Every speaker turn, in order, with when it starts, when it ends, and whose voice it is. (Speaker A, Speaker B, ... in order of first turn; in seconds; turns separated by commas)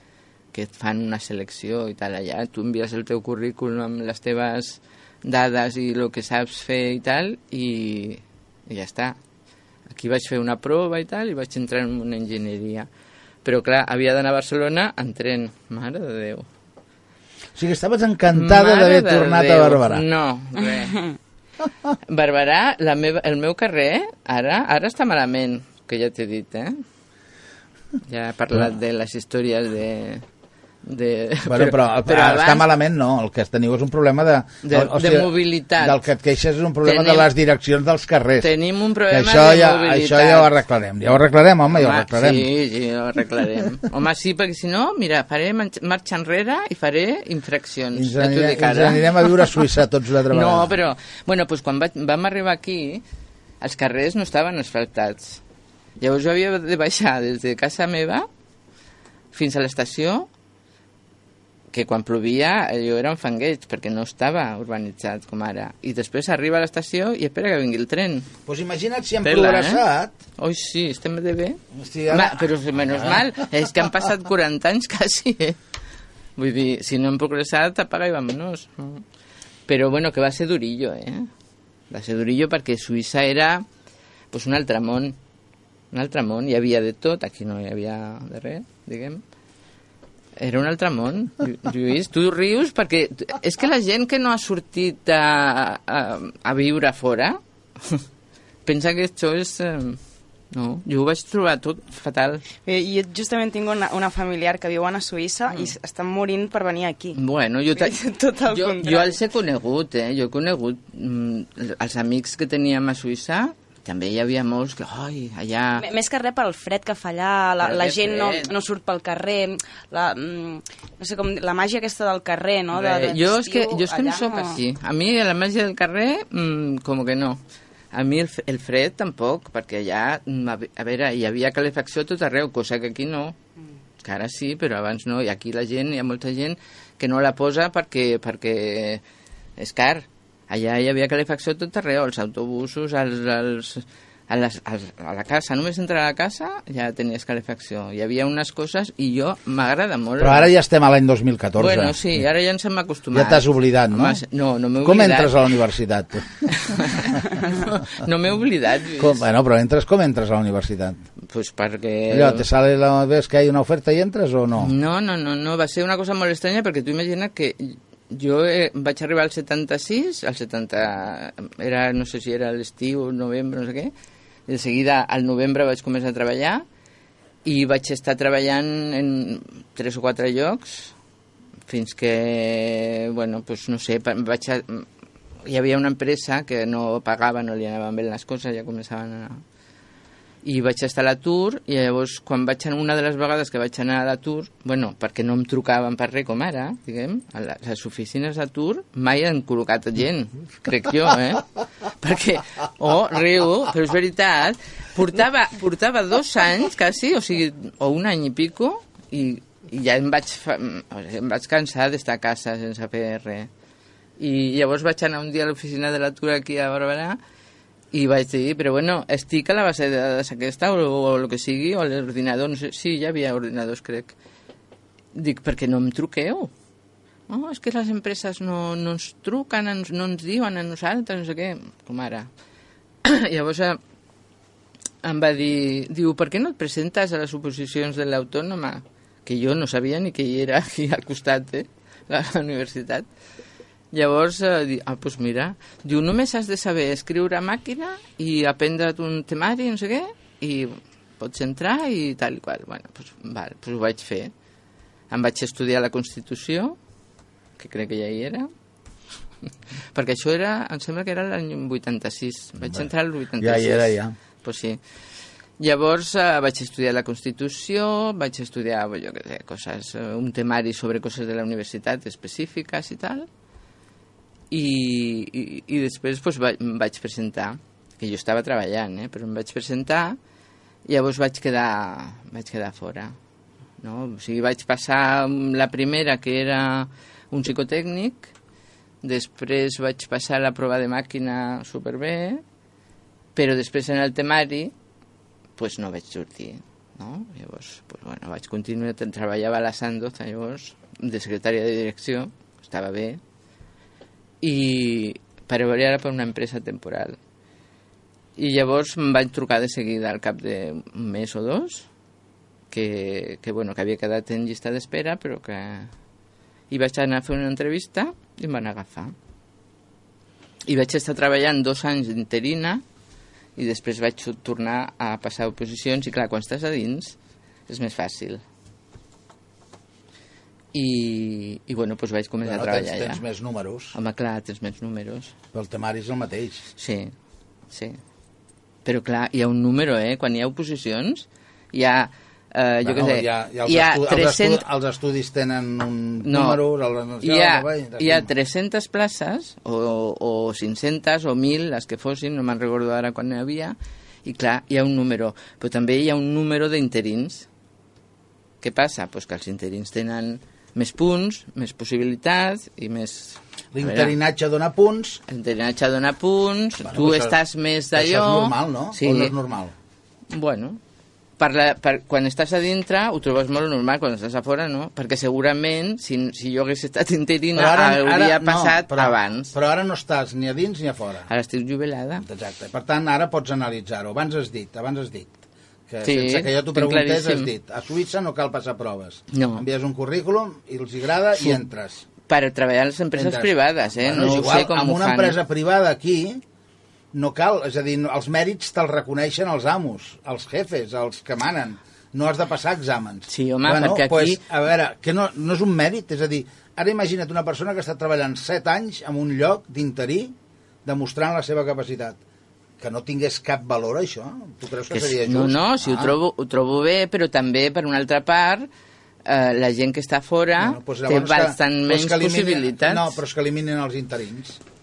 Speaker A: 0.5-9.2, Speaker A: 9.9-12.9, Speaker A: 13.4-16.5, Speaker B: 17.6-20.0, Speaker A: 18.3-21.0, Speaker A: 22.1-26.8, Speaker A: 28.1-30.2, Speaker A: 30.8-32.7, Speaker B: 31.5-38.5, Speaker A: 34.6-36.0, Speaker A: 36.8-37.3, Speaker A: 38.4-40.5, Speaker B: 39.1-42.5, Speaker A: 41.7-49.6, Speaker B: 47.9-50.7, Speaker A: 50.3-53.0, Speaker A: 53.6-55.4, Speaker A: 56.0-58.2, Speaker A: 59.3-60.3, Speaker A: 61.7-68.3, Speaker B: 68.5-70.1, Speaker A: 69.2-69.8, Speaker A: 70.4-75.6, Speaker B: 71.7-73.5, Speaker A: 76.4-79.0, Speaker A: 79.7-81.3, Speaker A: 81.9-83.6, Speaker A: 84.3-85.2, Speaker A: 85.9-89.2, Speaker A: 90.4-98.0, Speaker A: 98.7-100.0, Speaker A: 100.5-102.4, Speaker C: 102.7-107.2, Speaker A: 107.1-108.0, Speaker C: 107.7-109.1, Speaker A: 108.5-115.9, Speaker C: 115.8-124.6, Speaker A: 117.6-118.5, Speaker A: 122.7-127.4, Speaker A: 127.9-133.3, Speaker A: 134.0-139.0, Speaker A: 139.6-150.5, Speaker B: 150.2-152.2, Speaker A: 151.6-155.3, Speaker B: 153.1-154.2, Speaker B: 154.8-157.2, Speaker A: 156.5-159.2, Speaker B: 159.0-161.0, Speaker A: 161.3-162.4, Speaker B: 162.1-164.7, Speaker A: 164.6-173.9, Speaker A: 174.5-176.6, Speaker A: 177.4-180.9, Speaker A: 181.7-184.9, Speaker A: 185.4-189.4, Speaker A: 190.4-213.5, Speaker A: 214.2-217.2, Speaker A: 217.9-224.1, Speaker A: 225.1-226.5, Speaker A: 227.3-232.3, Speaker A: 233.0-233.8, Speaker A: 235.0-243.1, Speaker A: 243.9-254.3, Speaker A: 255.1-256.8, Speaker A: 257.6-258.5, Speaker A: 259.9-264.8, Speaker B: 262.6-264.1, Speaker A: 265.6-273.3, Speaker A: 274.5-280.2, Speaker A: 280.9-283.1, Speaker A: 283.8-288.3, Speaker A: 289.0-292.4, Speaker A: 293.3-294.7, Speaker A: 295.6-303.2, Speaker A: 304.4-307.2, Speaker A: 308.4-311.9, Speaker A: 312.7-315.9, Speaker A: 316.7-319.1, Speaker A: 320.7-322.8, Speaker A: 323.6-327.1, Speaker A: 327.7-328.4, Speaker A: 330.7-333.2, Speaker B: 332.4-333.9, Speaker A: 333.9-335.3, Speaker B: 335.5-336.7, Speaker A: 336.8-337.1, Speaker A: 337.7-338.0, Speaker A: 338.8-344.6, Speaker B: 342.8-348.3, Speaker A: 346.2-346.6, Speaker A: 347.2-357.5, Speaker A: 358.6-364.1, Speaker B: 363.7-365.2, Speaker A: 365.3-369.3, Speaker B: 366.9-367.4, Speaker B: 367.9-369.7, Speaker A: 370.3-370.8, Speaker A: 371.4-379.5, Speaker B: 377.5-381.3, Speaker A: 381.3-382.2, Speaker B: 382.2-385.3, Speaker B: 385.9-392.1, Speaker A: 386.0-387.5, Speaker A: 389.3-389.6, Speaker A: 391.4-391.6, Speaker A: 392.3-395.4, Speaker B: 393.1-396.4, Speaker B: 397.1-412.2, Speaker A: 403.3-404.4, Speaker B: 412.8-416.1, Speaker A: 414.9-418.7, Speaker A: 419.2-423.1, Speaker B: 420.6-424.6